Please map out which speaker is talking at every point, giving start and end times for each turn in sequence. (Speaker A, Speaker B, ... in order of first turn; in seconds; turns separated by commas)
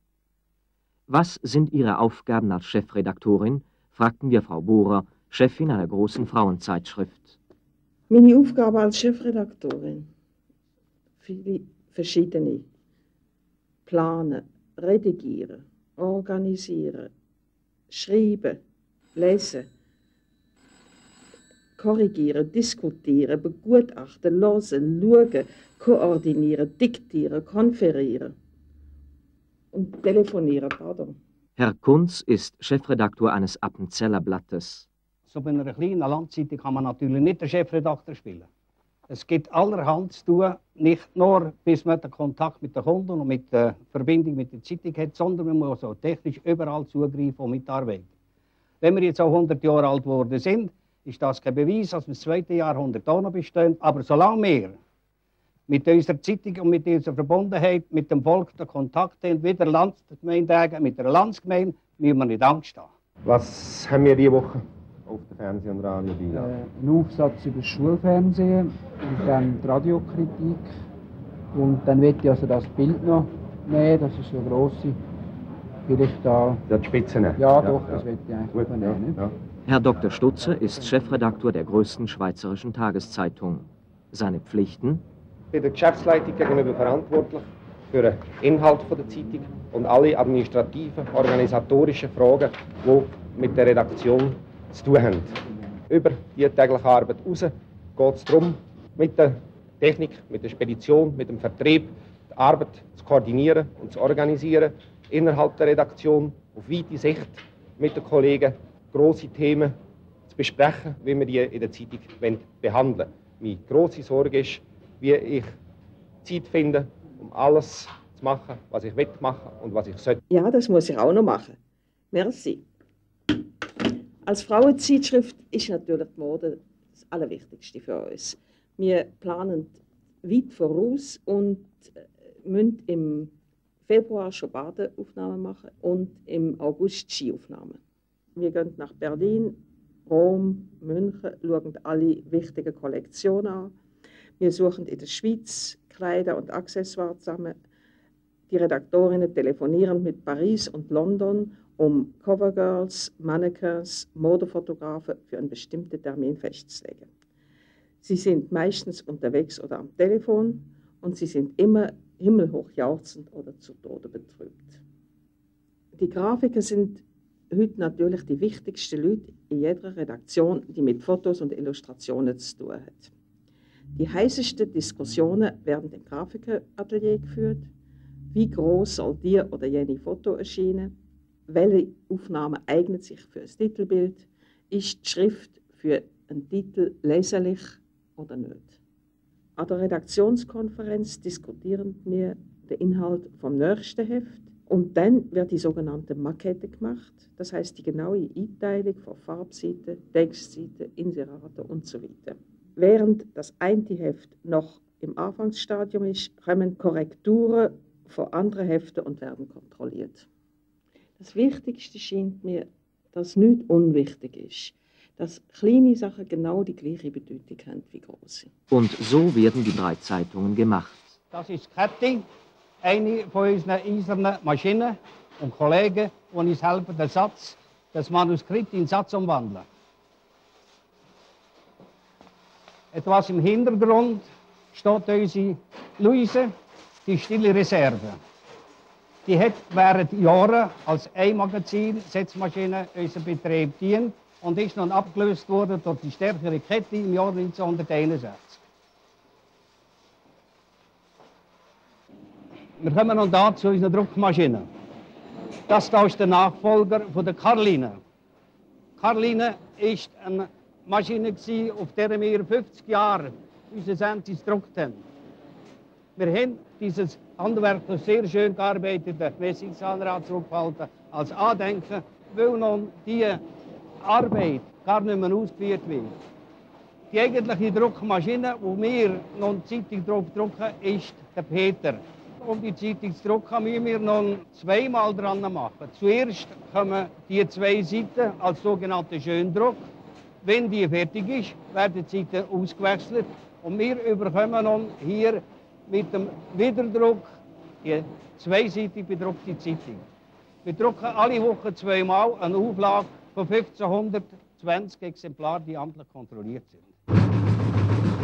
Speaker A: 1.1-7.4, Speaker B: 8.1-10.1, Speaker B: 11.2-12.7, Speaker B: 13.8-17.1, Speaker B: 17.9-18.6, Speaker B: 19.1-19.7, Speaker B: 21.8-28.3, Speaker B: 29.7-31.2, Speaker A: 31.6-34.9, Speaker C: 35.3-38.5, Speaker C: 39.1-48.1, Speaker C: 48.8-54.8, Speaker C: 55.7-62.9, Speaker D: 63.2-66.5, Speaker E: 66.3-70.7, Speaker E: 71.5-75.0, Speaker E: 75.9-76.6, Speaker D: 76.7-78.0, Speaker E: 77.3-79.2, Speaker D: 78.5-79.3, Speaker A: 79.7-85.0, Speaker D: 85.5-95.4, Speaker D: 95.9-109.8, Speaker D: 110.3-115.5, Speaker D: 116.2-120.2, Speaker B: 120.3-121.6, Speaker B: 122.1-122.6, Speaker B: 124.2-133.3, Speaker B: 133.8-137.8, Speaker B: 138.3-143.7, Speaker B: 144.4-147.5, Speaker B: 148.5-157.1, Speaker B: 158.0-164.8, Speaker B: 165.9-173.1, Speaker B: 173.9-177.7, Speaker B: 178.3-180.9, Speaker B: 181.5-188.8, Speaker B: 189.6-210.3, Speaker B: 211.2-218.5, Speaker A: 218.7-221.2, Speaker C: 221.3-222.2, Speaker C: 222.8-229.7, Speaker C: 232.9-236.5, Speaker C: 237.0-238.2, Speaker C: 239.2-248.6, Speaker C: 252.8-254.7, Speaker C: 255.7-258.0, Speaker C: 259.0-265.0, Speaker C: 266.1-273.4, Speaker C: 274.0-276.1, Speaker C: 277.1-289.9, Speaker C: 290.4-300.0, Speaker C: 300.6-306.9